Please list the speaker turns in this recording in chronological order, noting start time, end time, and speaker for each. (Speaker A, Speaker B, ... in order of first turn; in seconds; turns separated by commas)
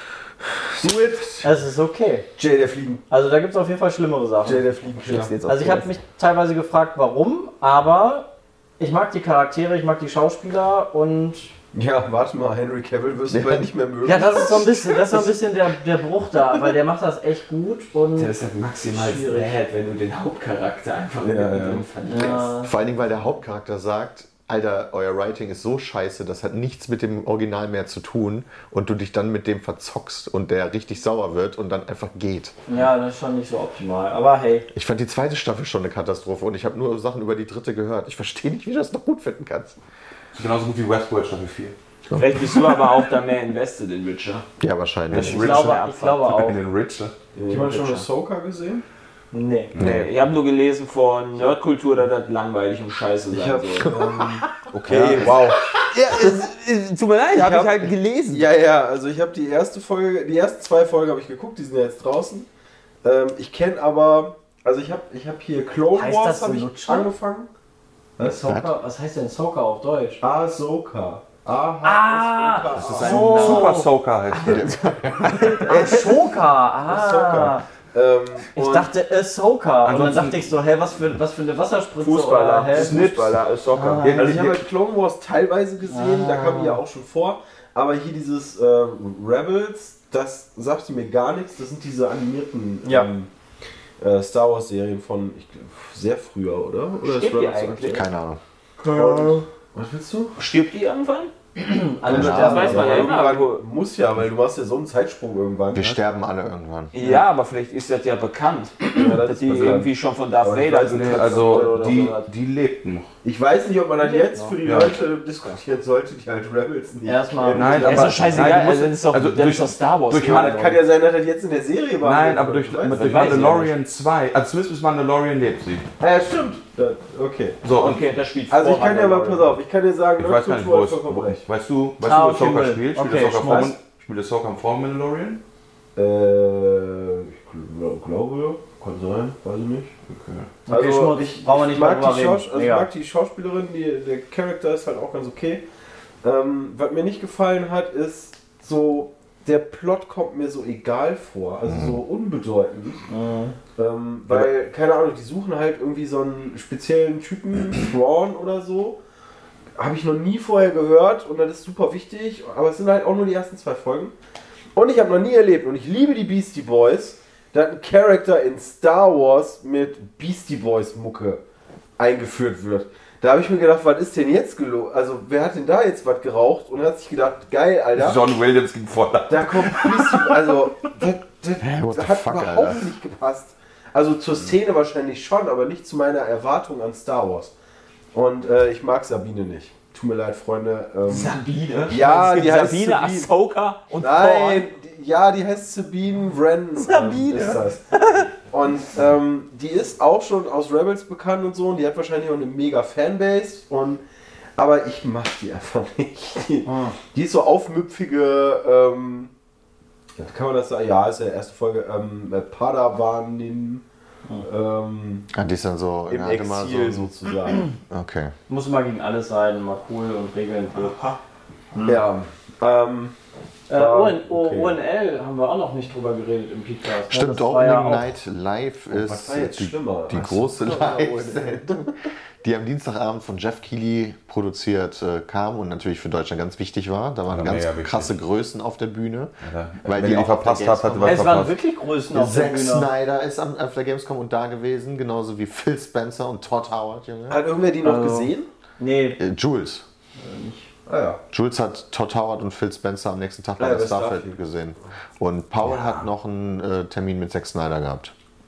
Speaker A: 0.8-1.4, Speaker B: 1.4-2.3, Speaker A: 2.4-3.0, Speaker B: 3.1-4.7, Speaker A: 4.4-5.3, Speaker C: 5.0-5.9, Speaker B: 5.4-11.5, Speaker A: 11.7-15.3, Speaker D: 13.3-13.7, Speaker B: 14.0-18.3, Speaker C: 18.1-22.5, Speaker B: 18.9-19.6, Speaker A: 21.2-21.9, Speaker B: 22.1-22.7, Speaker D: 22.6-32.5, Speaker B: 32.7-34.7, Speaker D: 34.7-39.8, Speaker E: 40.3-41.7, Speaker C: 42.1-44.4, Speaker D: 44.6-45.5, Speaker E: 45.1-47.1, Speaker C: 45.1-46.2, Speaker B: 45.1-46.6, Speaker A: 47.3-48.8, Speaker C: 47.5-48.0, Speaker B: 49.3-49.7, Speaker D: 49.8-50.1, Speaker C: 49.8-53.9, Speaker A: 53.3-56.4, Speaker D: 53.9-54.3, Speaker E: 54.7-55.4, Speaker C: 55.9-58.5, Speaker A: 57.3-62.5, Speaker A: 63.0-67.5, Speaker B: 65.9-67.1, Speaker B: 68.2-70.2, Speaker D: 68.2-68.7, Speaker A: 70.2-73.6, Speaker B: 71.8-73.9, Speaker E: 72.8-75.9, Speaker D: 73.2-73.6, Speaker D: 74.4-75.5, Speaker B: 75.3-77.6, Speaker A: 75.7-78.9, Speaker B: 78.5-83.1, Speaker E: 79.8-80.5, Speaker C: 82.0-84.0, Speaker E: 82.7-84.6, Speaker B: 83.7-84.3, Speaker A: 84.2-93.3, Speaker B: 85.9-86.8, Speaker B: 92.8-93.1, Speaker A: 94.0-98.0, Speaker C: 97.0-98.0, Speaker D: 97.9-98.4, Speaker B: 98.8-99.4, Speaker A: 98.8-100.3, Speaker C: 100.3-101.3, Speaker B: 101.5-103.2, Speaker A: 102.1-106.0, Speaker D: 102.1-102.7, Speaker C: 102.1-103.6, Speaker D: 105.7-106.9, Speaker C: 106.9-112.2, Speaker A: 107.0-107.2, Speaker A: 108.9-109.9, Speaker A: 110.4-112.2, Speaker E: 110.8-113.1, Speaker A: 113.2-118.7, Speaker B: 114.0-114.5, Speaker E: 114.6-115.0, Speaker B: 117.0-118.1, Speaker E: 117.5-120.7, Speaker C: 117.8-120.6, Speaker A: 120.3-123.7, Speaker E: 122.0-125.9, Speaker C: 122.9-123.7, Speaker A: 126.0-127.6, Speaker E: 127.6-128.0, Speaker C: 127.7-129.5, Speaker A: 128.5-131.4, Speaker E: 130.2-135.4, Speaker B: 132.0-133.7, Speaker A: 135.9-140.0, Speaker E: 140.1-140.5, Speaker B: 140.7-142.9, Speaker A: 140.7-145.6, Speaker A: 146.2-153.1, Speaker B: 153.1-153.6, Speaker A: 153.8-159.0, Speaker A: 159.8-164.1, Speaker A: 164.7-171.4, Speaker A: 172.0-178.2, Speaker E: 177.9-180.4, Speaker A: 179.3-187.5, Speaker D: 181.6-182.8, Speaker A: 188.1-193.3, Speaker C: 191.1-194.6, Speaker A: 194.0-197.8, Speaker C: 196.8-198.3, Speaker A: 198.3-204.0, Speaker A: 204.6-209.3, Speaker B: 206.7-207.0, Speaker A: 210.2-213.8, Speaker A: 214.4-215.3, Speaker D: 215.3-217.1, Speaker A: 216.1-217.7, Speaker D: 217.9-218.3, Speaker B: 218.5-221.0, Speaker C: 220.8-221.2, Speaker B: 221.7-222.0, Speaker A: 221.8-223.1, Speaker B: 223.7-228.1, Speaker A: 223.7-224.8, Speaker D: 227.1-241.2, Speaker A: 228.9-231.4, Speaker B: 230.6-231.2, Speaker E: 237.3-238.1, Speaker E: 239.4-241.5, Speaker B: 241.0-242.9, Speaker D: 242.1-247.4, Speaker A: 247.3-248.5, Speaker B: 247.8-249.2, Speaker D: 249.2-249.8, Speaker B: 250.2-250.7, Speaker A: 250.8-251.2, Speaker D: 251.3-258.1, Speaker A: 253.6-254.4